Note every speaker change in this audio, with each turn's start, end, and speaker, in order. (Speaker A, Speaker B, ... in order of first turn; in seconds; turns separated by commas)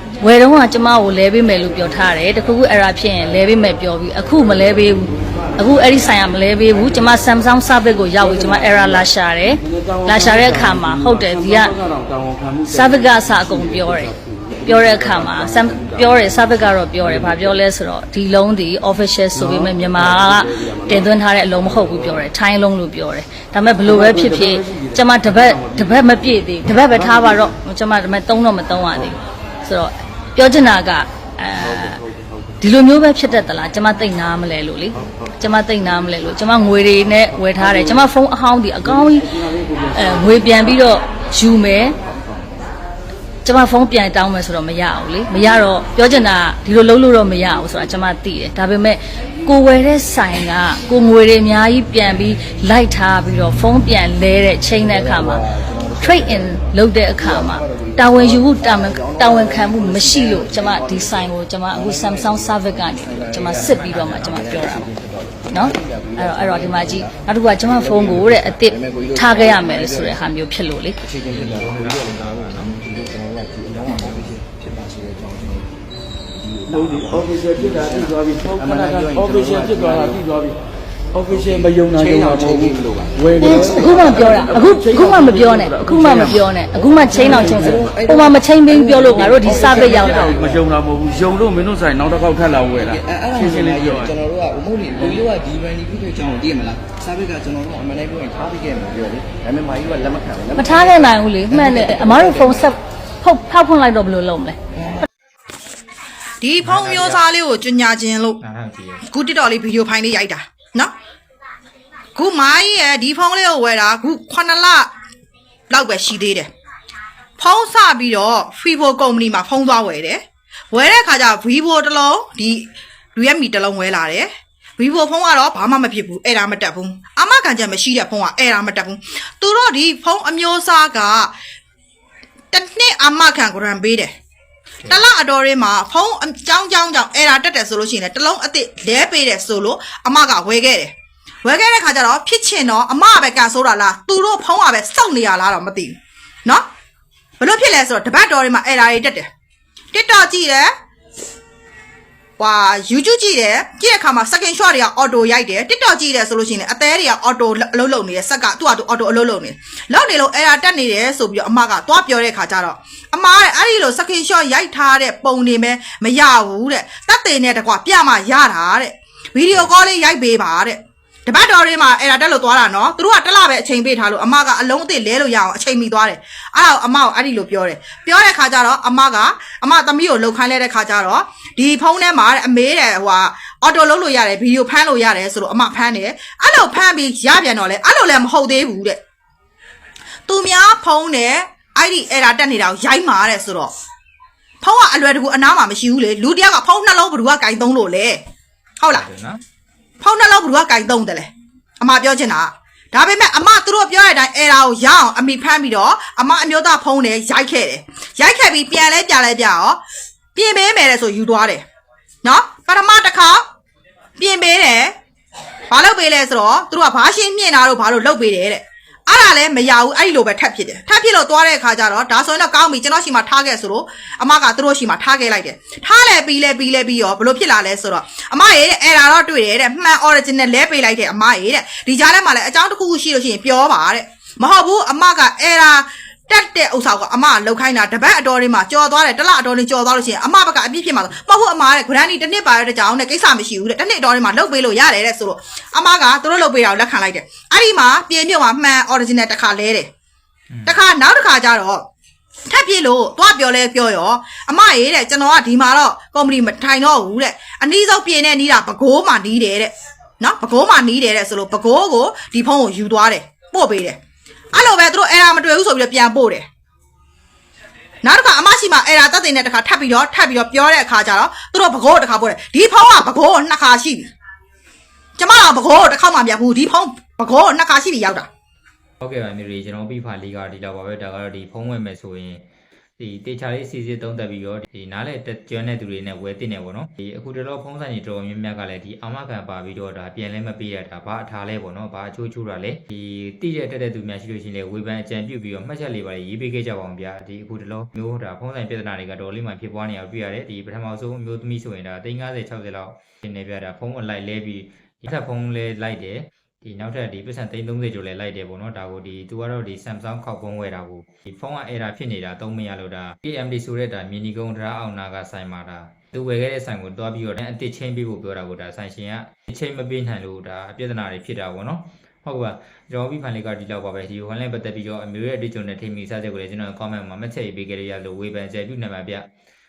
Speaker A: 0.2-11.8, Speaker B: 9.8-10.1, Speaker B: 10.7-10.9, Speaker B: 12.0-12.7, Speaker A: 12.6-32.0, Speaker B: 24.6-24.8, Speaker A: 32.6-42.0, Speaker A: 43.5-64.9, Speaker C: 54.7-70.2, Speaker D: 63.7-64.5, Speaker A: 65.5-71.0, Speaker C: 71.0-80.3, Speaker D: 71.3-72.8, Speaker B: 76.8-80.5, Speaker C: 81.2-84.7, Speaker B: 81.2-86.4, Speaker A: 83.4-90.4, Speaker C: 87.1-90.8, Speaker B: 90.3-94.1, Speaker C: 92.2-102.8, Speaker A: 100.5-104.6, Speaker C: 104.7-105.1, Speaker E: 106.4-108.4, Speaker D: 106.6-107.3, Speaker D: 108.4-109.1, Speaker E: 109.1-110.9, Speaker E: 112.2-114.9, Speaker E: 115.7-116.5, Speaker E: 117.4-131.3, Speaker E: 132.5-134.1, Speaker E: 134.9-140.9, Speaker E: 141.4-146.7, Speaker E: 147.4-149.3, Speaker E: 149.9-150.7, Speaker E: 152.4-189.0, Speaker E: 190.3-193.7, Speaker E: 194.6-198.2, Speaker E: 198.8-199.1, Speaker D: 198.9-199.4, Speaker E: 200.0-209.8, Speaker E: 210.3-211.6, Speaker E: 212.2-213.4, Speaker E: 214.2-214.9, Speaker E: 215.7-249.9, Speaker D: 250.5-250.8, Speaker E: 250.7-251.8, Speaker E: 252.5-264.0, Speaker E: 264.5-266.5, Speaker E: 268.0-274.1, Speaker E: 275.2-278.3, Speaker D: 279.0-282.4, Speaker D: 283.0-329.3